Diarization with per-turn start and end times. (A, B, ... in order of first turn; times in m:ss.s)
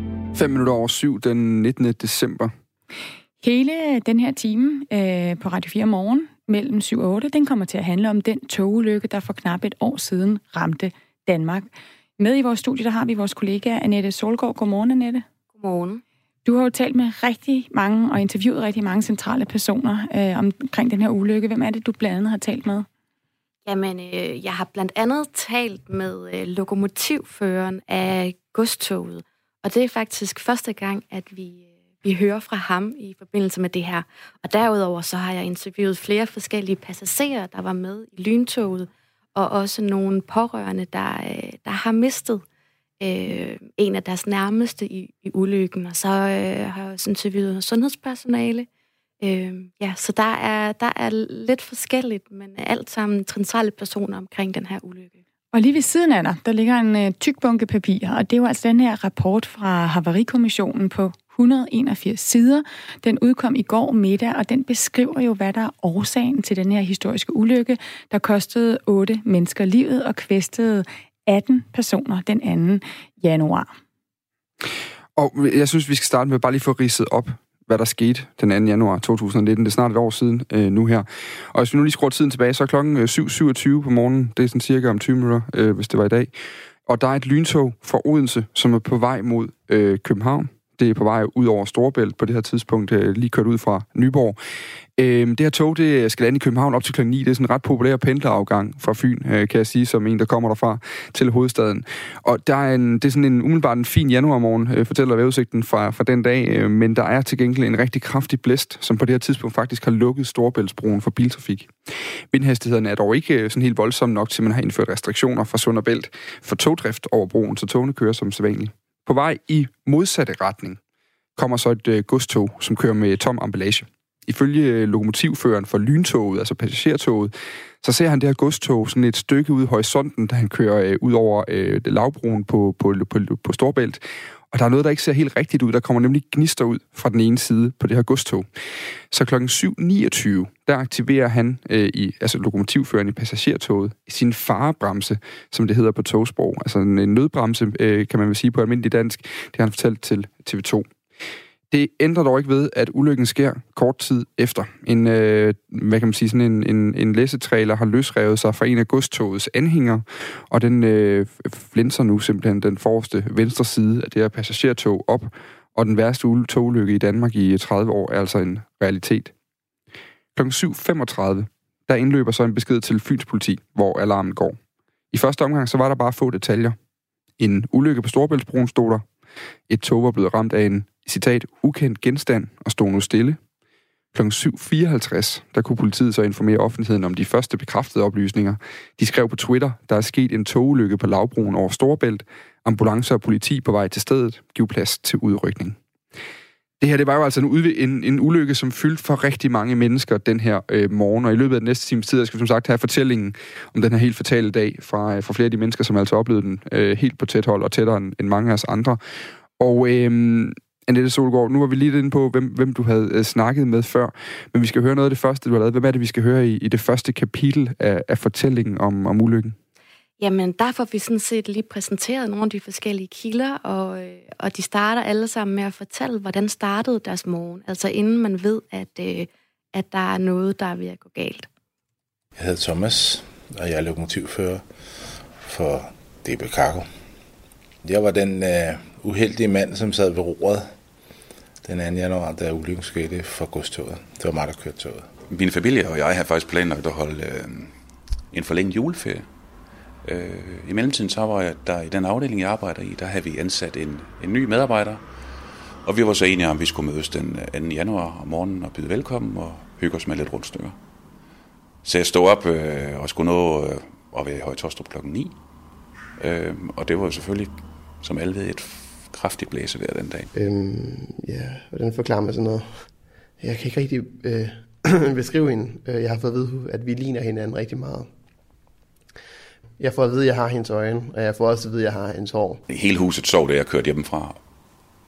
0:00.3-0:02.5 A
0:03.4-0:15.2 B
0:15.6-0:16.0 C
0:16.4-0:22.9 B
0:23.6-0:42.4 C
0:43.0-0:48.7 C
0:49.2-0:55.2 C
0:55.5-1:13.7 B
1:14.6-1:26.3 A
1:26.8-1:34.4 A
1:35.0-2:00.8 A
2:01.4-2:18.5 A
2:19.1-2:30.9 A
2:31.7-2:49.3 A
2:50.3-2:54.6 A
2:55.1-2:56.8 A
2:57.4-2:59.0 A
2:59.7-3:03.4 A
3:04.1-3:15.8 A
3:16.8-3:29.0 A
3:29.6-3:39.6 A
3:40.2-3:51.5 C
3:52.4-3:54.6 D
3:55.4-3:56.9 D
3:57.8-4:00.7 D
4:01.6-4:05.0 D
4:05.3-4:07.8 E
4:08.3-4:09.2 E
4:10.0-4:15.0 E
4:15.8-4:20.8 E
4:21.8-4:25.4 E
4:26.2-4:30.3 E
4:30.3-4:32.9 F
4:33.4-4:38.1 F
4:39.8-4:42.6 F
4:42.7-4:44.4 E